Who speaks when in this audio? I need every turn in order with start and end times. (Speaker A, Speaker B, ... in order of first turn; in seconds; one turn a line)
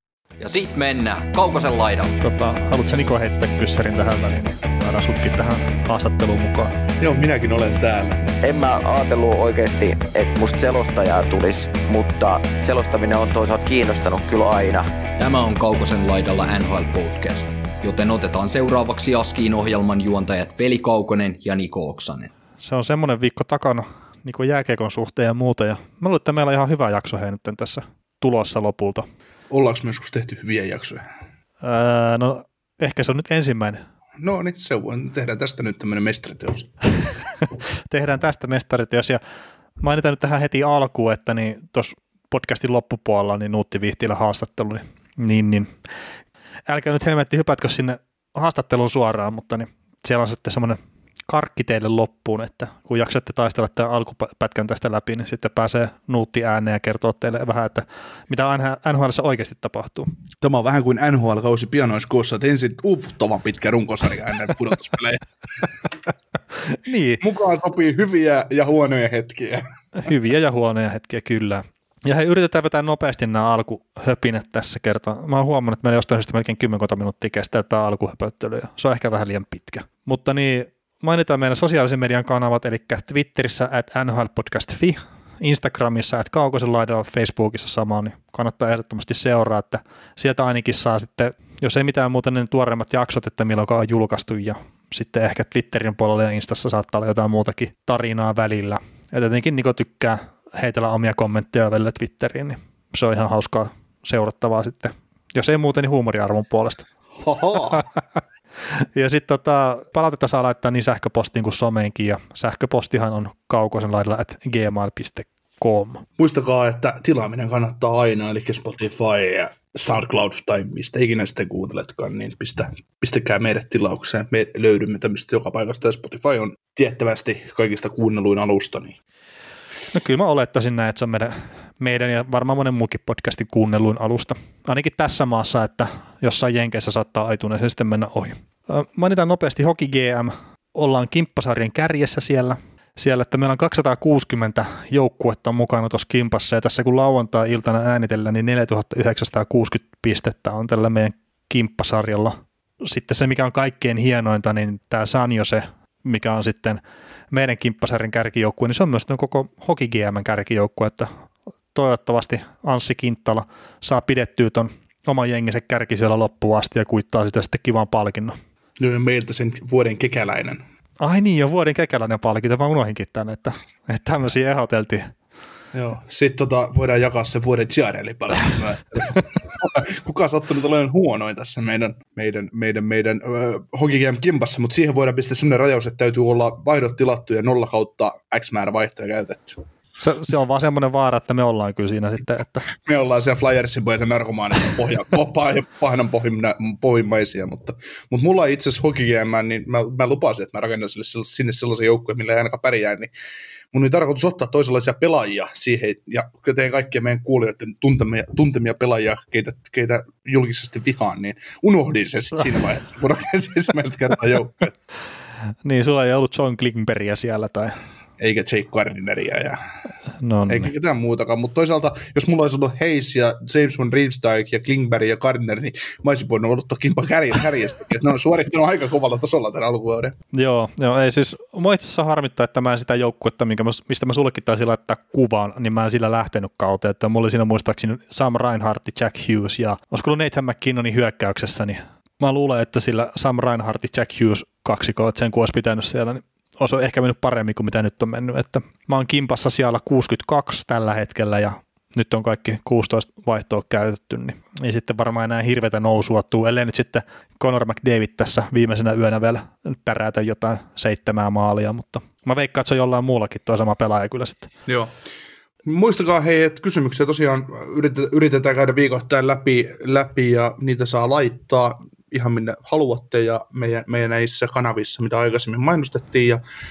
Speaker A: 0.4-2.1
Speaker B: 2.2-6.7
Speaker C: 7.0-8.3
Speaker D: 8.4-14.9
Speaker A: 15.2-22.3
Speaker B: 22.6-29.1
Speaker C: 29.5-31.1
Speaker B: 31.6-33.8
Speaker C: 34.2-36.7
Speaker B: 37.9-39.2
Speaker B: 39.8-45.7
Speaker B: 46.7-60.1
Speaker C: 60.4-65.7
Speaker B: 66.8-67.2
Speaker C: 67.2-69.7
Speaker B: 70.0-106.8
Speaker C: 107.2-107.8
Speaker B: 108.9-116.0
Speaker C: 116.2-129.0
Speaker B: 129.9-156.8
Speaker B: 157.3-161.1
Speaker B: 161.7-168.3
Speaker C: 168.8-170.6
Speaker B: 171.0-175.1
Speaker C: 175.7-189.6
Speaker B: 190.0-192.7
Speaker C: 192.7-203.1
Speaker C: 203.7-214.8
Speaker B: 215.6-217.7
Speaker C: 218.2-219.6
Speaker B: 220.2-220.7
Speaker C: 220.5-230.2
Speaker B: 230.3-264.5
Speaker C: 264.7-264.9
Speaker C: 265.6-276.4